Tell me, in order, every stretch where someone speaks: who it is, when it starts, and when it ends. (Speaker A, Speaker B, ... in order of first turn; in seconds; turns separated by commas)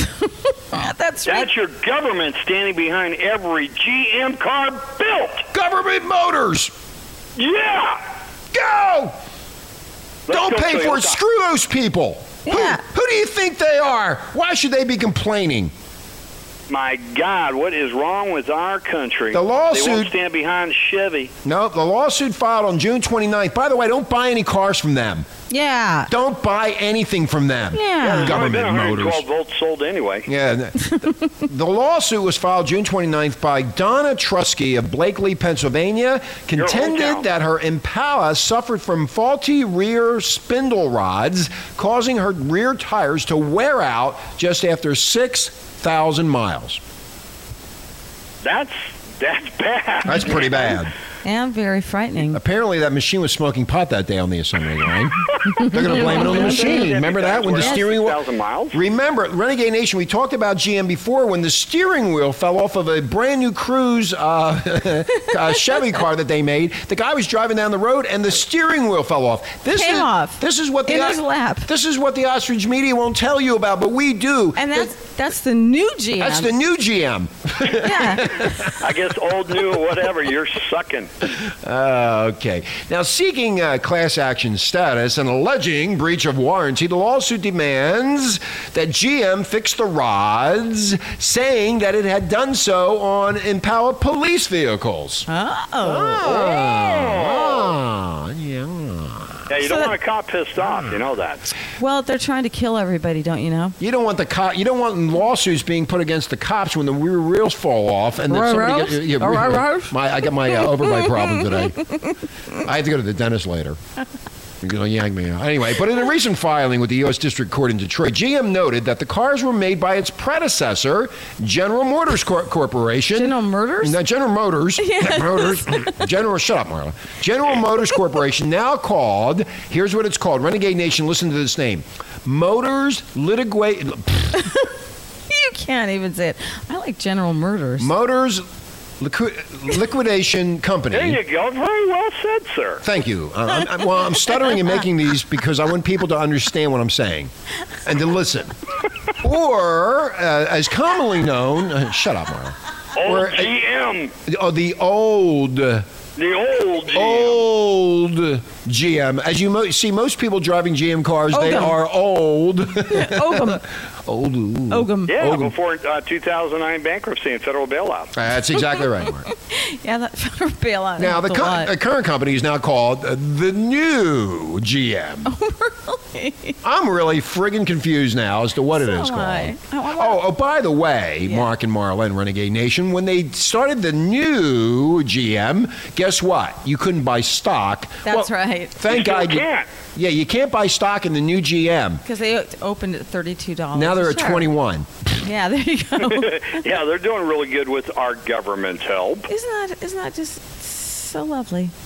Speaker A: 0.2-1.5, Speaker B: 1.3-5.5, Speaker C: 5.5-6.7, Speaker B: 7.4-8.0, Speaker C: 8.5-9.2, Speaker B: 10.3-11.2, Speaker C: 10.3-15.7, Speaker A: 12.5-12.8, Speaker B: 16.7-21.3, Speaker C: 19.3-20.1, Speaker C: 21.4-25.3, Speaker A: 25.5-26.1, Speaker C: 26.1-29.2, Speaker A: 27.7-28.4, Speaker B: 28.0-30.3, Speaker C: 30.3-46.8, Speaker B: 36.6-37.2, Speaker B: 48.4-50.7, Speaker C: 50.0-50.9, Speaker A: 51.2-52.4, Speaker C: 52.3-74.9, Speaker A: 55.6-56.9, Speaker B: 55.8-58.8, Speaker A: 69.7-71.7, Speaker A: 74.6-76.6, Speaker C: 76.2-78.7, Speaker A: 77.7-78.8, Speaker B: 78.8-81.1, Speaker C: 81.3-95.3, Speaker A: 95.3-96.4, Speaker C: 95.8-99.5, Speaker B: 96.2-97.7, Speaker B: 99.5-101.5, Speaker A: 99.6-99.9, Speaker A: 101.8-103.8, Speaker C: 103.8-111.8, Speaker A: 108.3-110.0, Speaker A: 110.5-112.1, Speaker C: 112.6-113.8, Speaker C: 114.6-134.5, Speaker A: 123.1-124.0, Speaker A: 124.8-126.0, Speaker A: 135.3-137.9, Speaker C: 137.8-138.4, Speaker C: 139.0-141.2, Speaker B: 140.9-142.8, Speaker C: 142.8-147.3, Speaker C: 147.8-148.5, Speaker C: 149.2-153.5, Speaker B: 153.0-154.1, Speaker C: 154.3-155.9, Speaker B: 156.2-157.4, Speaker C: 156.9-165.5, Speaker A: 161.3-161.8, Speaker A: 162.9-163.6, Speaker A: 164.7-165.2, Speaker B: 165.1-168.1, Speaker C: 168.1-169.3, Speaker A: 168.6-171.7, Speaker C: 171.0-175.3, Speaker A: 175.3-176.6, Speaker C: 176.6-192.0, Speaker A: 178.7-180.2, Speaker A: 188.1-188.8, Speaker B: 188.9-189.7, Speaker A: 192.1-194.5, Speaker C: 193.7-194.9, Speaker A: 195.2-196.6, Speaker B: 196.0-199.3, Speaker A: 199.3-201.7